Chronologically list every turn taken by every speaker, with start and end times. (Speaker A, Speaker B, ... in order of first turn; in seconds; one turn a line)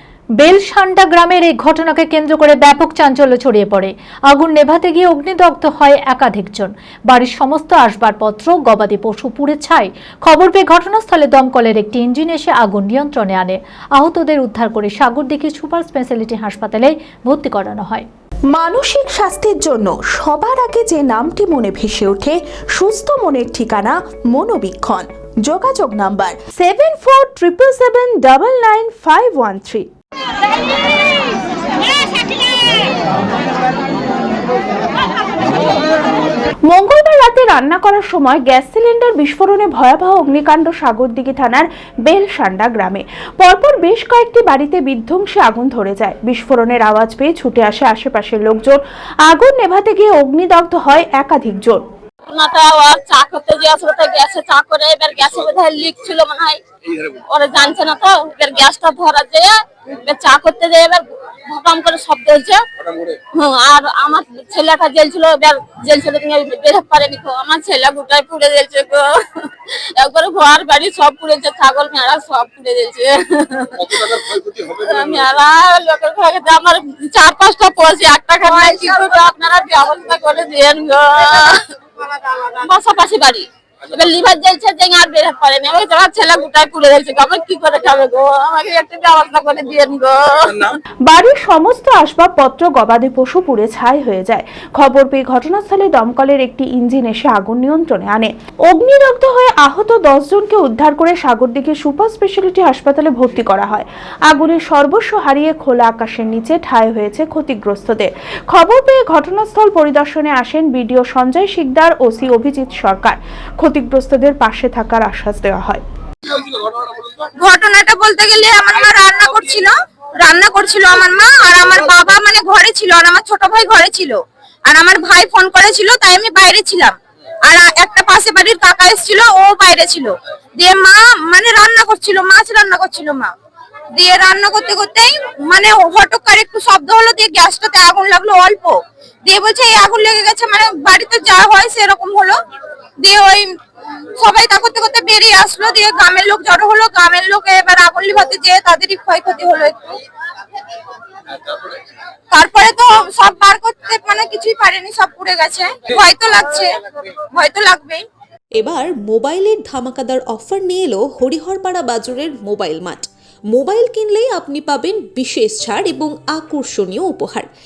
Speaker A: 0.4-18.1
Speaker B: 18.5-29.9
Speaker B: 36.7-51.8
Speaker C: 52.3-59.5
Speaker C: 60.1-81.6
Speaker D: 78.5-78.9
Speaker C: 82.3-90.8
Speaker B: 91.1-115.8
Speaker D: 117.4-119.7
Speaker D: 120.2-127.0
Speaker D: 127.5-133.3
Speaker D: 134.0-142.4
Speaker D: 143.0-143.5
Speaker D: 144.2-149.9
Speaker D: 152.3-156.7
Speaker D: 157.3-158.1
Speaker E: 158.6-167.5